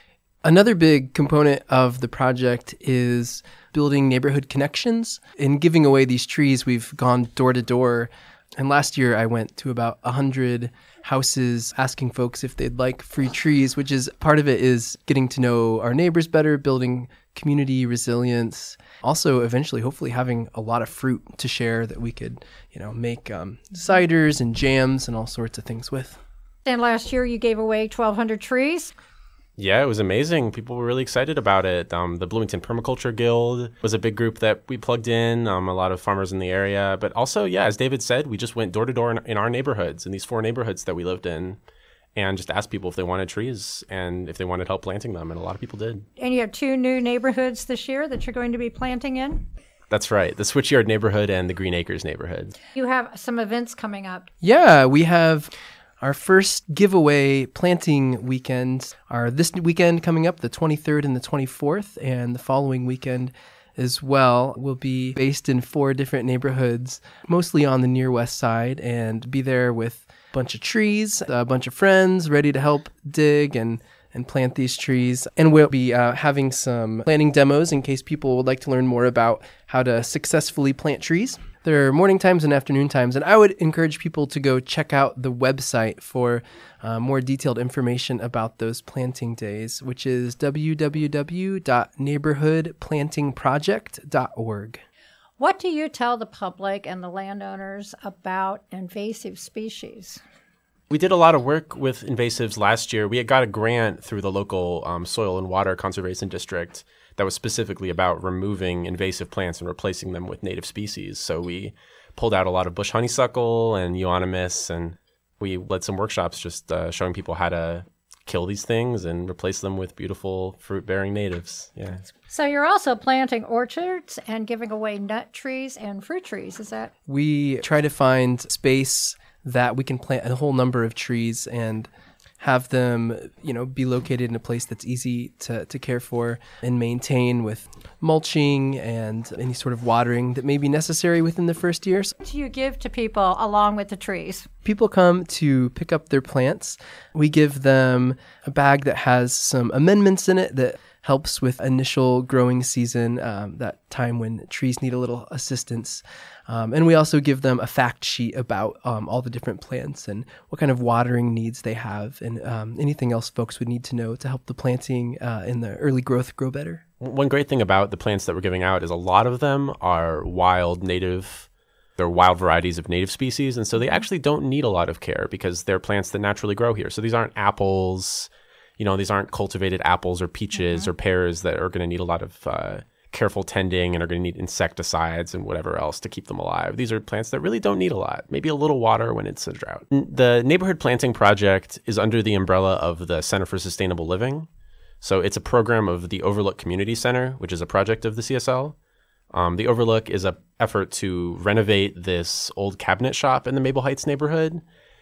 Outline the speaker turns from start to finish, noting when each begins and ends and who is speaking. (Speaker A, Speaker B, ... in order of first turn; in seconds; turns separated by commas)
Speaker A: 0.4-26.2, Speaker B: 26.6-28.9, Speaker C: 29.6-41.6, Speaker C: 42.1-46.1, Speaker B: 46.2-49.5, Speaker C: 49.9-52.5, Speaker B: 52.7-54.3, Speaker A: 54.4-94.8, Speaker B: 95.4-100.2, Speaker C: 100.9-122.0, Speaker B: 122.3-126.9, Speaker A: 127.1-142.1, Speaker B: 142.2-144.5, Speaker A: 144.6-166.8, Speaker C: 167.0-194.5, Speaker B: 180.6-180.8, Speaker C: 195.0-198.8, Speaker C: 199.3-204.6